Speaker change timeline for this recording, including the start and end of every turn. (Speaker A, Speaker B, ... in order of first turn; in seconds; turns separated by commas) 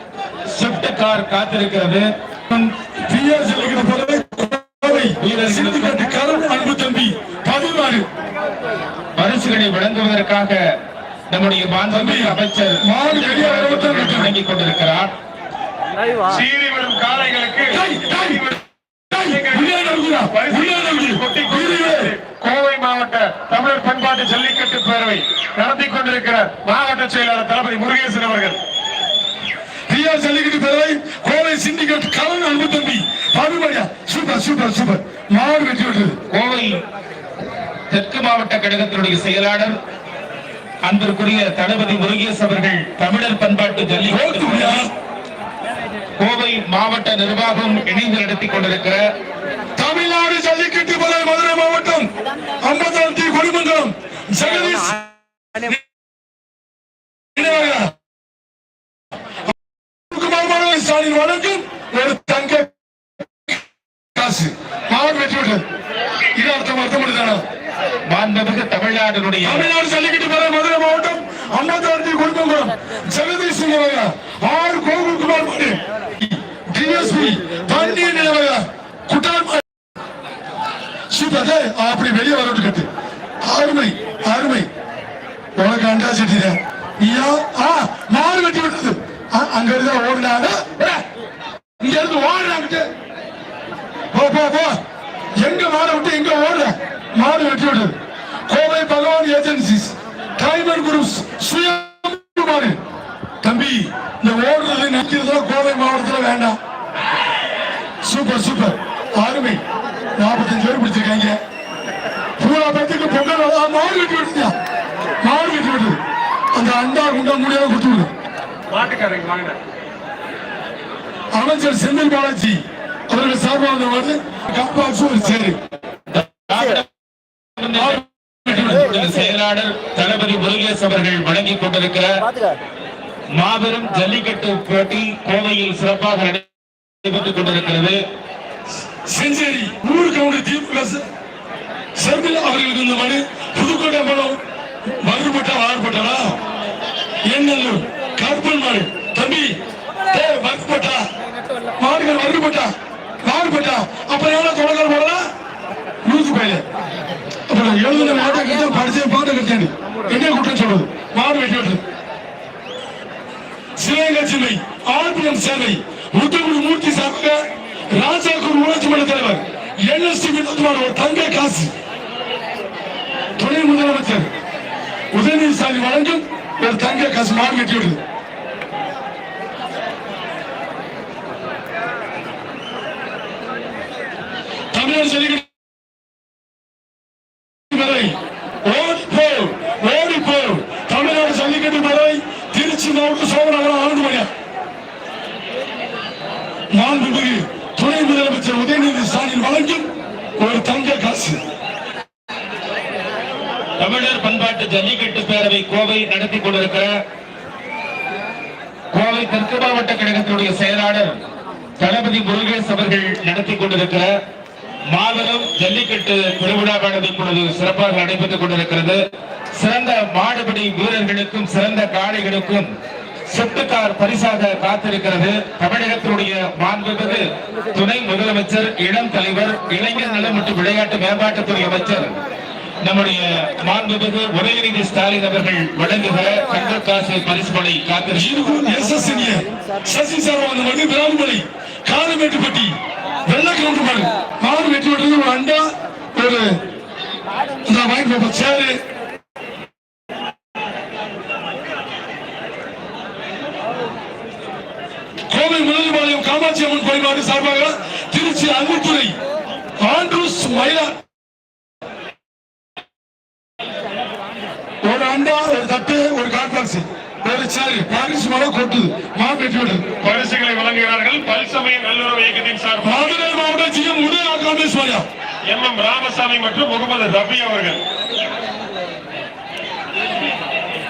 Speaker A: 0.5-2.1, Speaker B: 2.5-8.1, Speaker A: 5.0-6.1, Speaker A: 9.2-10.6, Speaker A: 11.3-15.1, Speaker B: 11.9-14.4, Speaker C: 16.3-18.6, Speaker B: 17.7-18.5, Speaker B: 19.1-22.1, Speaker C: 19.2-28.6, Speaker B: 29.9-36.2, Speaker A: 36.3-36.8, Speaker A: 37.9-39.8, Speaker A: 40.9-44.8, Speaker B: 44.1-44.9, Speaker A: 46.2-49.0, Speaker B: 49.8-52.1, Speaker B: 52.6-55.8, Speaker B: 57.4-57.9, Speaker B: 60.1-62.7, Speaker B: 64.2-65.6, Speaker B: 66.3-67.4, Speaker A: 68.1-69.7, Speaker B: 69.4-79.6, Speaker B: 81.1-82.9, Speaker B: 83.4-84.7, Speaker B: 85.6-90.9, Speaker B: 91.8-92.9, Speaker B: 94.1-94.8, Speaker B: 95.4-98.0, Speaker B: 98.5-102.8, Speaker B: 103.4-106.6, Speaker B: 108.0-109.6, Speaker B: 110.2-111.4, Speaker B: 112.4-114.5, Speaker B: 115.2-116.0, Speaker B: 116.5-118.1, Speaker C: 118.7-119.6, Speaker B: 121.3-125.6, Speaker A: 126.1-126.9, Speaker A: 127.6-132.2, Speaker B: 127.8-128.9, Speaker A: 133.3-136.5, Speaker A: 137.0-138.0, Speaker B: 139.1-141.0, Speaker B: 142.0-144.4, Speaker B: 145.0-146.3, Speaker B: 147.2-149.6, Speaker B: 150.1-151.1, Speaker B: 151.8-152.7, Speaker B: 153.2-155.2, Speaker B: 156.1-156.6, Speaker B: 157.5-161.8, Speaker B: 163.8-167.4, Speaker B: 167.9-171.7, Speaker B: 173.4-174.3, Speaker B: 175.1-178.0, Speaker B: 184.7-185.5, Speaker B: 187.7-194.3, Speaker B: 196.7-199.9, Speaker B: 200.4-201.4, Speaker A: 203.8-206.9, Speaker A: 208.9-211.2, Speaker A: 211.8-214.1, Speaker A: 214.9-219.0, Speaker A: 219.6-222.7, Speaker A: 223.3-232.2, Speaker A: 232.8-238.7, Speaker B: 238.1-242.7, Speaker B: 243.3-246.6, Speaker B: 247.7-248.8, Speaker B: 255.3-259.1, Speaker B: 259.8-260.9, Speaker B: 264.8-269.9, Speaker C: 270.0-273.1, Speaker B: 272.8-275.1, Speaker C: 275.5-277.8